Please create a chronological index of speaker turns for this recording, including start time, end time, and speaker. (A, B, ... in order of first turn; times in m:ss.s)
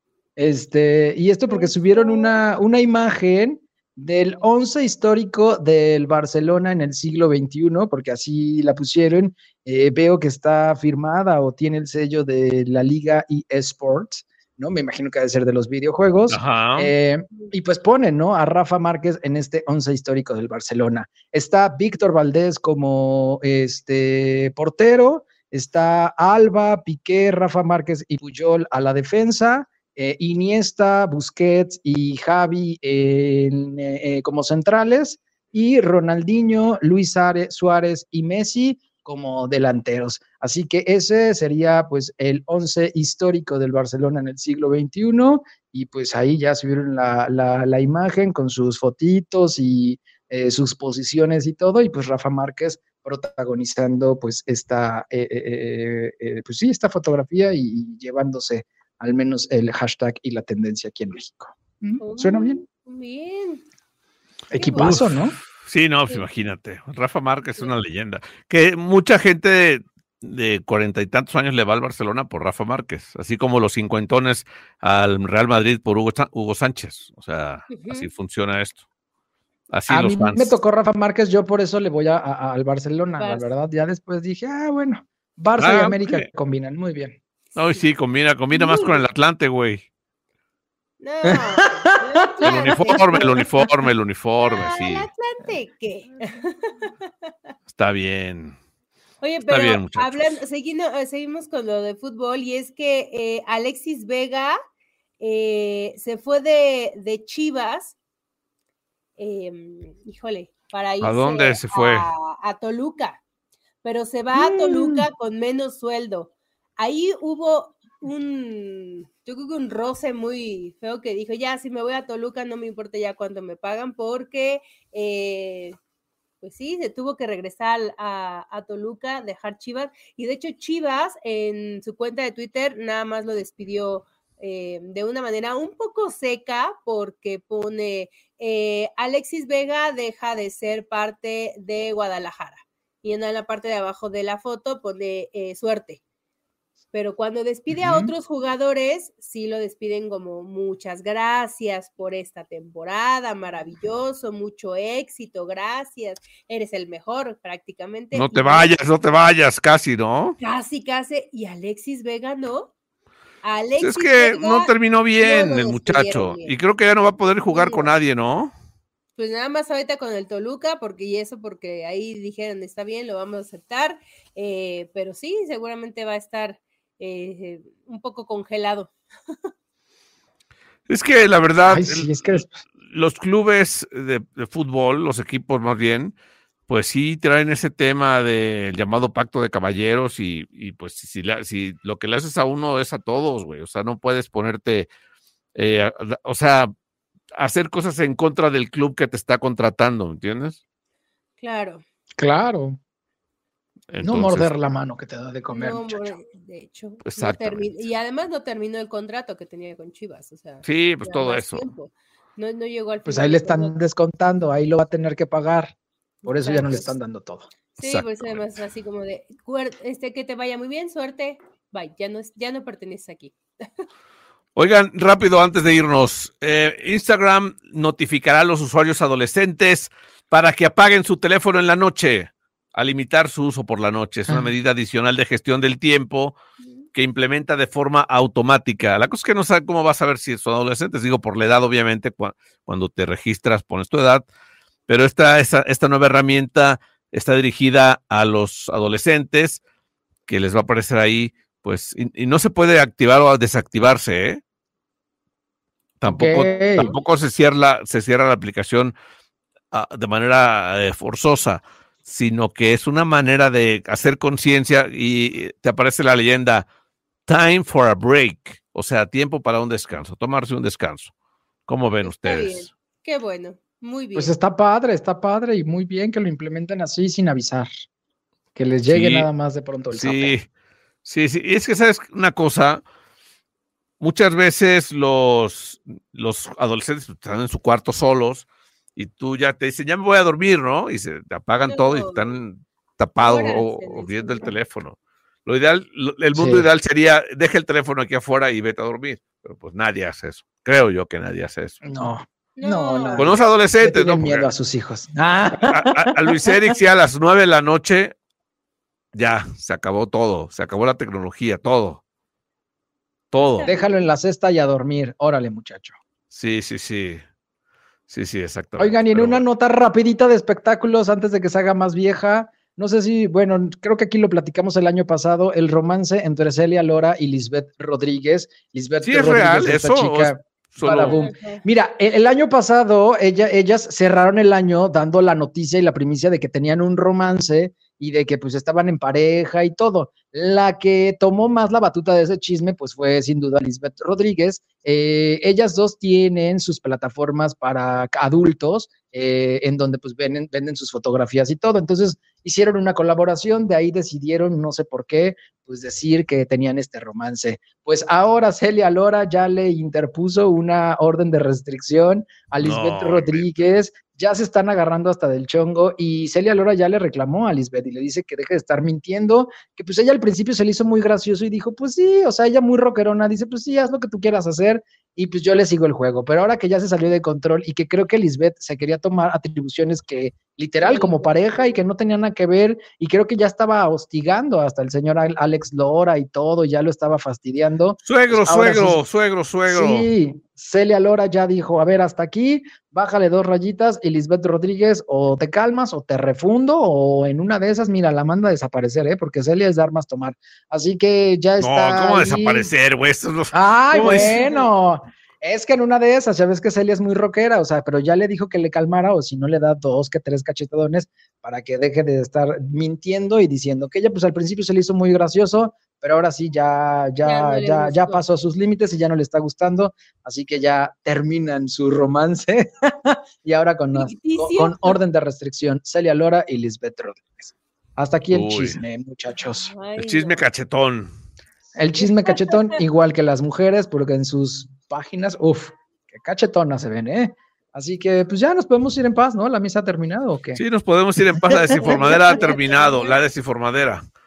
0:00.4-1:02.6 A
0:01.5-0:02.4 B
0:16.3-0:16.9 C
1:02.0-1:03.6 B
1:04.5-1:05.0 B
1:04.5-1:05.4 A
1:04.8-1:18.8 C
1:17.7-1:18.1 B
1:19.7-1:20.5 C
1:19.9-1:27.2 A
1:23.2-1:23.5 B
1:25.6-1:26.2 C
1:27.6-1:29.8 C
1:28.5-1:29.0 B
1:31.0-1:33.5 B
1:31.3-1:31.9 A
1:32.4-1:33.0 A
1:32.4-1:35.1 C
1:34.4-1:37.0 B
1:37.7-1:38.6 C
1:39.2-1:44.6 B
1:39.5-1:40.4 C
1:45.2-1:48.0 B
1:49.2-1:53.2 B
1:51.0-1:52.1 C
1:53.8-2:05.8 B
1:54.4-1:55.1 A
2:06.4-2:26.0 B
2:26.9-2:38.7 B
2:27.7-2:28.1 A
2:38.1-2:40.4 C
2:40.4-2:42.7 B
2:43.4-2:46.6 B
2:43.8-2:48.5 C
2:47.5-2:47.9 B
2:49.2-2:58.9 B
3:00.9-3:06.2 C
3:01.7-3:02.6 A
3:06.7-3:14.9 C
3:15.6-3:16.7 C
3:17.3-3:20.6 C
3:21.4-3:21.8 B
3:22.2-3:22.8 A
3:23.9-3:24.5 C
3:24.0-3:26.2 A
3:25.5-3:33.7 B
3:27.1-3:27.8 C
3:30.6-3:31.6 C
3:33.1-3:35.7 A
3:36.2-3:37.0 B
3:36.2-3:37.5 A
3:37.8-3:43.9 B
3:37.8-3:38.5 C
3:44.6-3:56.4 C
3:56.9-4:04.2 C
4:04.9-4:09.6 C
4:10.3-4:14.4 C
4:16.0-4:19.0 C
4:16.1-4:16.9 A
4:16.5-4:17.0 B
4:19.7-4:26.7 C
4:27.3-4:31.1 C
4:31.7-4:32.7 C
4:32.0-4:34.3 B
4:34.2-4:37.7 A
4:38.6-4:40.4 A
4:38.9-4:39.3 C
4:39.9-4:40.5 C
4:41.0-4:42.8 C
4:44.0-5:01.8 C
4:51.7-4:52.4 B
4:53.2-4:54.5 B
4:56.4-4:56.7 A
5:01.8-5:06.5 A
5:02.6-5:03.3 B
5:03.2-5:04.5 C
5:05.6-5:08.2 C
5:09.1-5:12.0 C
5:13.3-5:13.7 C
5:13.4-5:14.0 B
5:13.6-5:16.0 A
5:16.3-5:17.2 C
5:18.1-5:19.4 C
5:18.8-6:29.0 A
5:29.0-5:31.3 C
5:31.2-5:31.6 B
6:02.6-6:03.4 C
6:20.8-6:21.1 B
6:28.1-6:30.1 C
6:29.7-6:42.7 A
6:41.6-6:44.4 C
6:43.5-7:09.7 A
6:43.9-6:44.7 B
6:57.2-6:58.2 B
7:03.9-7:05.0 B
7:08.3-7:08.8 C
7:09.4-7:10.4 B
7:10.0-7:11.1 C
7:11.8-7:20.6 A
7:12.0-7:12.8 B
7:20.6-7:24.0 C
7:21.2-7:22.4 A
7:21.8-7:23.2 B